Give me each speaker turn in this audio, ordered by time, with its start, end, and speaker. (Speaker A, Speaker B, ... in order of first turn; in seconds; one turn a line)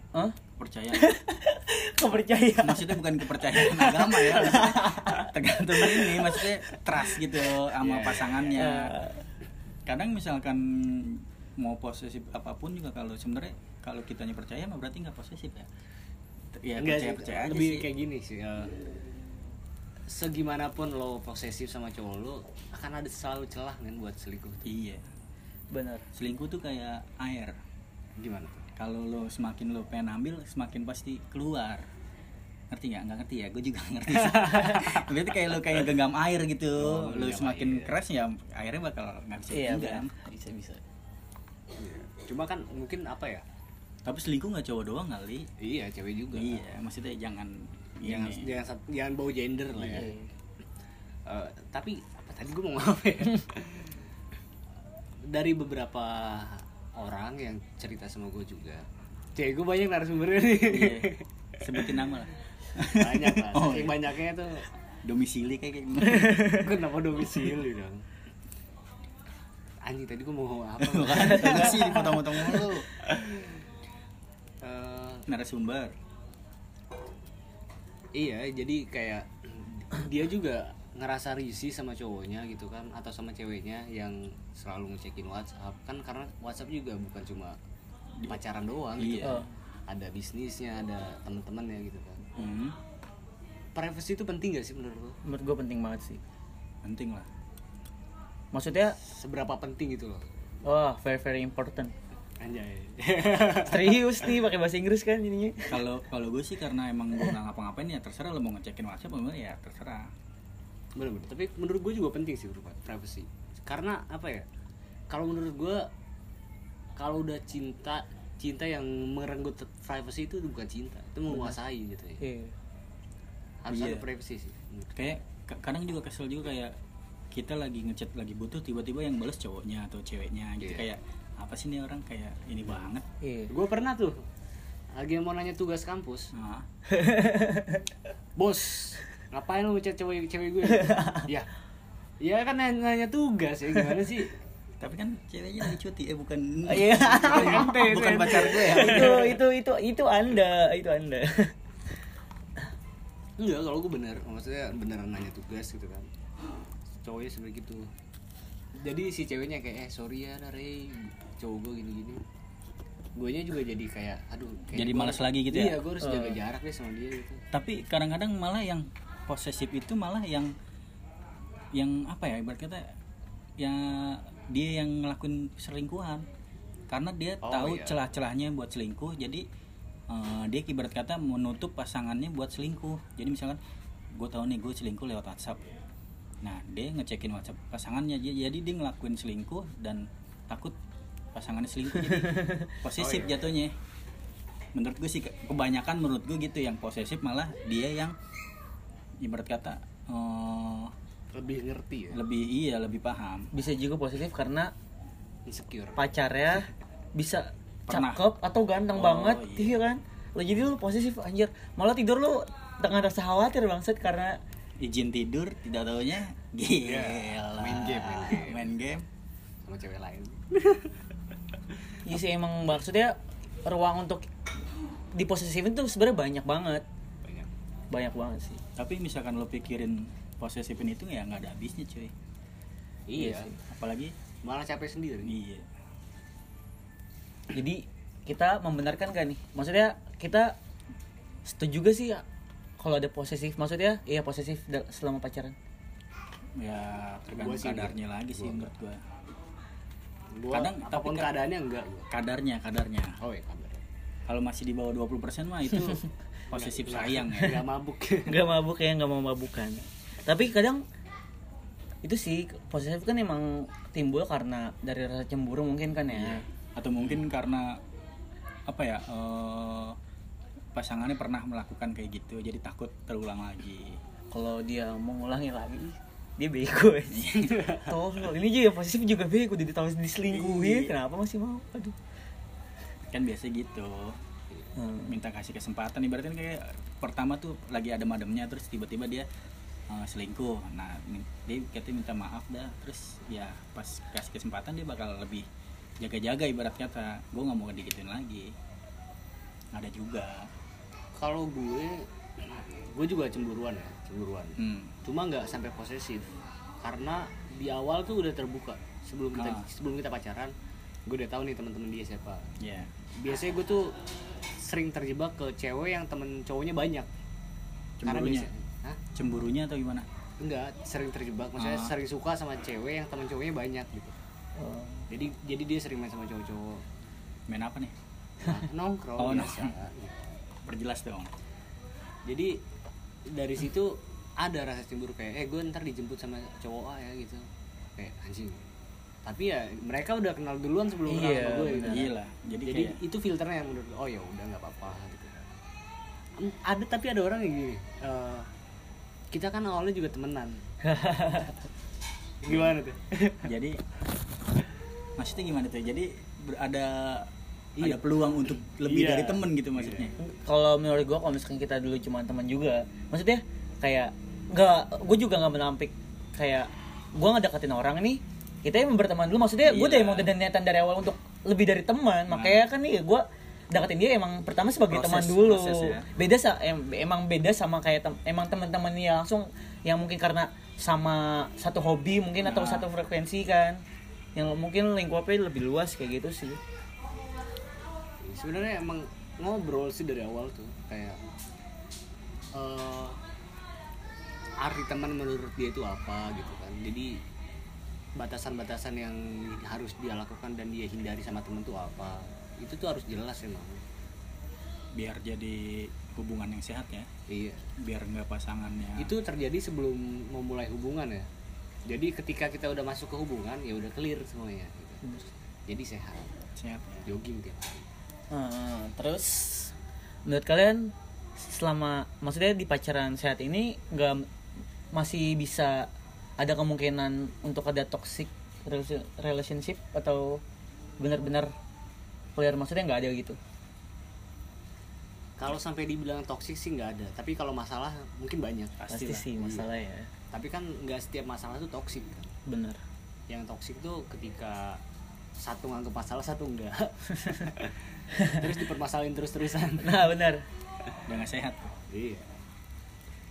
Speaker A: 0.6-1.1
Speaker B: 0.9-6.5
Speaker A: 2.6-9.0
Speaker C: 7.8-8.6
Speaker B: 8.5-9.2
Speaker A: 9.8-15.7
Speaker A: 16.5-17.9
Speaker C: 16.8-18.7
Speaker C: 20.1-24.7
Speaker A: 24.6-25.1
Speaker B: 25.7-26.0
Speaker A: 26.1-27.6
Speaker C: 28.2-28.7
Speaker A: 28.8-31.9
Speaker A: 32.7-40.1
Speaker C: 34.2-35.1
Speaker C: 36.8-38.0
Speaker B: 39.5-40.8
Speaker C: 41.8-43.4
Speaker A: 44.0-45.5
Speaker C: 45.6-46.6
Speaker A: 46.3-48.5
Speaker C: 48.0-50.1
Speaker A: 49.8-50.0
Speaker B: 49.9-50.3
Speaker C: 51.2-54.0
Speaker C: 55.3-62.0
Speaker A: 60.7-64.1
Speaker C: 62.9-64.7
Speaker A: 65.0-66.5
Speaker B: 66.1-66.7
Speaker C: 66.5-68.0
Speaker C: 69.8-73.7
Speaker A: 70.8-72.9
Speaker B: 71.2-72.2
Speaker C: 74.6-75.2
Speaker A: 75.3-75.9
Speaker C: 78.1-87.5
Speaker C: 88.3-92.2
Speaker A: 89.0-89.4
Speaker B: 89.2-89.5
Speaker A: 92.3-92.8
Speaker C: 93.7-95.2
Speaker B: 95.2-96.2
Speaker A: 96.8-97.3
Speaker B: 98.5-99.0
Speaker C: 99.0-100.4
Speaker B: 100.6-101.9
Speaker C: 102.4-104.3
Speaker B: 103.6-105.7
Speaker A: 105.7-110.1
Speaker C: 111.0-114.5
Speaker C: 115.1-115.9
Speaker C: 117.0-122.2
Speaker B: 121.3-121.5
Speaker B: 122.2-122.5
Speaker C: 123.6-124.9
Speaker A: 123.7-124.0
Speaker A: 124.9-126.8
Speaker A: 127.3-133.1
Speaker C: 130.6-130.9
Speaker B: 133.2-133.5
Speaker C: 133.5-134.2
Speaker C: 134.9-136.3
Speaker A: 136.3-136.7
Speaker B: 136.9-137.9
Speaker C: 138.4-141.5
Speaker B: 140.7-141.3
Speaker C: 142.2-144.4
Speaker A: 144.8-149.2
Speaker B: 146.7-151.5
Speaker C: 147.2-149.4
Speaker C: 153.4-156.1
Speaker C: 157.0-157.9
Speaker C: 158.8-162.2
Speaker C: 163.2-167.4
Speaker A: 164.7-165.8
Speaker B: 166.0-166.4
Speaker A: 167.5-170.5
Speaker A: 171.7-172.9
Speaker A: 173.6-176.2
Speaker A: 176.9-179.4
Speaker C: 177.4-178.0
Speaker A: 180.1-183.6
Speaker A: 184.2-185.6
Speaker A: 186.4-190.8
Speaker A: 191.3-193.7
Speaker B: 192.1-192.7
Speaker C: 192.9-193.4
Speaker A: 194.7-198.1
Speaker A: 199.2-200.9
Speaker C: 201.3-202.2
Speaker A: 202.1-203.5
Speaker B: 203.5-204.7
Speaker C: 205.4-206.0
Speaker B: 206.0-214.4
Speaker A: 207.9-208.2
Speaker A: 208.9-209.8
Speaker A: 214.8-219.1
Speaker C: 216.8-218.8
Speaker C: 219.7-221.0
Speaker B: 222.0-224.3
Speaker B: 225.1-226.8
Speaker C: 227.2-227.5
Speaker B: 227.9-228.6
Speaker A: 228.8-232.1
Speaker C: 233.1-233.5
Speaker B: 233.1-233.6
Speaker A: 233.7-234.1
Speaker C: 234.4-235.3
Speaker A: 235.2-235.7
Speaker B: 237.5-240.6
Speaker B: 241.4-242.2
Speaker B: 242.8-245.5
Speaker A: 246.6-249.0
Speaker C: 247.3-248.7
Speaker C: 250.3-252.1
Speaker A: 250.5-251.3
Speaker A: 252.1-253.2
Speaker C: 253.2-253.8
Speaker A: 254.3-257.6
Speaker C: 256.5-258.5
Speaker B: 258.2-260.8
Speaker B: 262.0-266.4
Speaker A: 266.8-267.8
Speaker A: 268.7-270.0
Speaker A: 270.7-274.0
Speaker B: 274.3-281.9
Speaker A: 277.1-277.6
Speaker C: 277.5-277.9
Speaker A: 280.3-280.9
Speaker A: 283.1-284.2
Speaker B: 284.8-285.1
Speaker A: 285.1-289.3
Speaker A: 289.9-295.5
Speaker A: 296.0-298.5
Speaker A: 299.7-300.5
Speaker C: 301.1-306.3
Speaker A: 304.6-304.9
Speaker C: 306.8-310.5
Speaker A: 309.3-309.7
Speaker C: 311.1-312.5
Speaker A: 312.6-312.9
Speaker C: 313.2-314.0
Speaker C: 314.5-317.1
Speaker A: 318.0-318.5
Speaker C: 318.0-319.0
Speaker A: 319.1-320.1
Speaker C: 320.4-324.1
Speaker A: 321.6-321.9
Speaker B: 324.6-325.1
Speaker C: 325.1-326.8
Speaker A: 327.5-327.9
Speaker C: 328.4-330.4
Speaker A: 329.2-329.7
Speaker A: 330.6-331.3
Speaker C: 332.2-332.6
Speaker C: 333.3-338.7
Speaker C: 339.2-342.1
Speaker B: 341.1-342.1
Speaker A: 341.8-343.0
Speaker C: 342.6-345.5
Speaker C: 346.4-348.5
Speaker C: 349.3-350.6
Speaker B: 350.8-351.6
Speaker C: 352.4-353.5
Speaker A: 352.5-352.7
Speaker A: 353.4-353.8
Speaker A: 355.2-360.1
Speaker C: 357.8-360.1
Speaker B: 360.2-383.8
Speaker A: 369.6-370.3
Speaker A: 372.3-372.7
Speaker A: 374.9-376.1
Speaker A: 382.4-382.9
Speaker B: 384.4-386.6
Speaker C: 388.2-391.2
Speaker C: 392.5-393.2
Speaker C: 394.6-397.2
Speaker C: 398.1-403.8
Speaker A: 404.9-407.1
Speaker C: 407.3-407.7
Speaker A: 407.8-409.1
Speaker C: 409.0-411.3
Speaker C: 411.9-415.0
Speaker B: 415.0-415.3
Speaker C: 415.6-416.4
Speaker A: 416.6-417.1
Speaker C: 417.0-417.9
Speaker B: 418.3-419.7
Speaker B: 420.2-424.3
Speaker B: 424.9-430.4
Speaker B: 431.0-431.5
Speaker B: 432.4-433.4
Speaker C: 435.4-438.8
Speaker A: 438.8-439.3
Speaker B: 438.9-440.1
Speaker C: 439.4-439.7
Speaker C: 440.3-442.3
Speaker B: 442.4-442.8
Speaker C: 443.3-444.8
Speaker C: 445.4-450.1
Speaker B: 447.2-447.4
Speaker B: 448.1-448.4
Speaker B: 449.8-450.4
Speaker A: 451.1-451.7
Speaker C: 451.9-452.4